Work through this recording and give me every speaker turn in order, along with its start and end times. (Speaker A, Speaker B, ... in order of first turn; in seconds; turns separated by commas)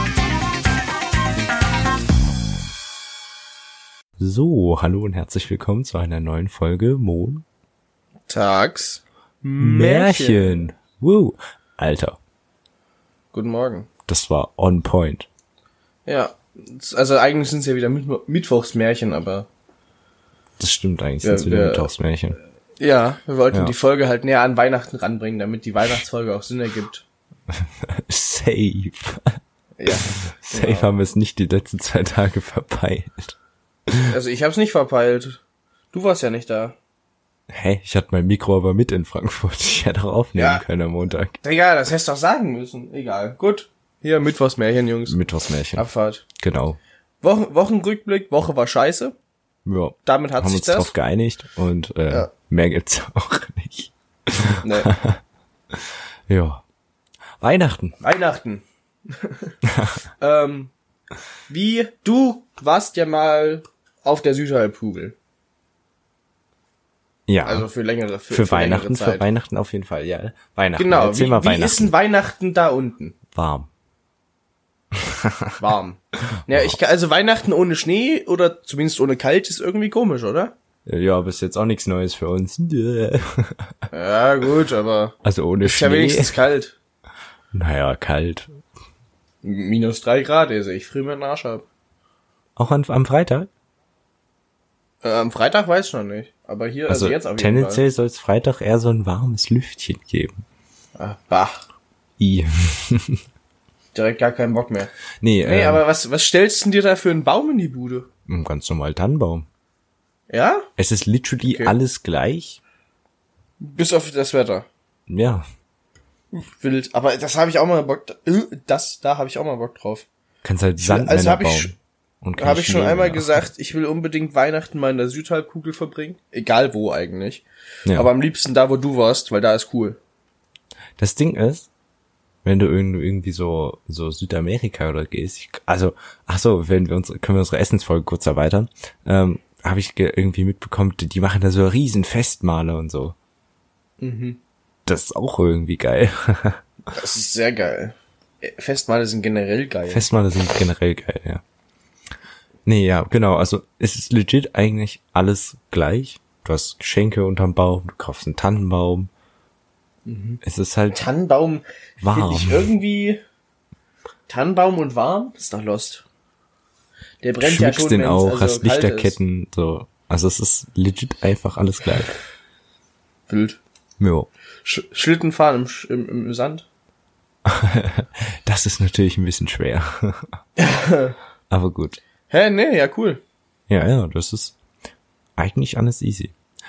Speaker A: 4.2-7.4, Speaker B: 8.3-10.7, Speaker A: 9.6-12.2, Speaker B: 13.3-13.9, Speaker A: 14.1-15.3, Speaker B: 16.1-19.5, Speaker A: 20.6-22.4, Speaker B: 21.2-21.9, Speaker B: 22.8-27.1, Speaker A: 27.5-29.4, Speaker B: 29.8-30.9, Speaker A: 30.4-33.4, Speaker A: 33.9-34.1, Speaker B: 34.1-35.4, Speaker B: 35.9-36.8, Speaker A: 37.5-41.4, Speaker B: 40.3-40.6, Speaker B: 41.4-45.2, Speaker A: 45.1-45.8, Speaker B: 45.7-46.2, Speaker A: 46.4-46.8, Speaker B: 47.2-49.1, Speaker A: 49.6-55.2, Speaker B: 50.0-50.9, Speaker B: 54.6-54.9, Speaker A: 55.7-56.6, Speaker A: 57.4-58.0, Speaker B: 58.0-59.5, Speaker A: 59.7-60.0, Speaker B: 60.2-60.7, Speaker B: 61.5-65.1, Speaker A: 67.3-67.7, Speaker B: 67.4-69.2, Speaker A: 68.3-71.9, Speaker B: 70.8-73.1, Speaker A: 73.3-73.7, Speaker A: 74.9-75.5, Speaker B: 75.6-80.5, Speaker A: 80.8-83.7, Speaker B: 83.9-86.8, Speaker A: 85.2-86.3, Speaker A: 87.5-88.5, Speaker B: 89.4-91.6, Speaker A: 92.5-93.5, Speaker B: 95.0-97.8, Speaker A: 96.9-100.4, Speaker B: 101.0-101.6, Speaker A: 102.2-103.2, Speaker B: 103.9-104.9, Speaker A: 105.2-105.8, Speaker B: 105.4-108.1, Speaker A: 108.3-109.5, Speaker B: 110.3-110.7, Speaker A: 110.8-112.6, Speaker B: 111.4-111.7, Speaker B: 113.6-114.7, Speaker A: 115.1-115.4, Speaker B: 116.3-120.1, Speaker A: 120.4-123.5, Speaker B: 120.8-121.7, Speaker B: 122.4-130.0, Speaker A: 131.0-131.7, Speaker A: 132.4-143.2, Speaker B: 144.0-144.4, Speaker A: 144.8-146.6, Speaker B: 146.9-150.1, Speaker A: 149.9-151.4, Speaker A: 152.7-159.1, Speaker B: 160.1-160.4, Speaker A: 160.4-161.1, Speaker B: 160.9-163.2, Speaker A: 162.0-162.7, Speaker B: 164.3-166.0, Speaker B: 167.2-169.2, Speaker A: 167.4-172.1, Speaker B: 173.3-173.6, Speaker A: 174.0-174.3, Speaker B: 174.6-176.7, Speaker A: 177.4-180.3, Speaker B: 180.6-181.2, Speaker A: 181.5-182.0, Speaker B: 182.3-183.2, Speaker A: 183.7-184.6, Speaker A: 185.4-186.3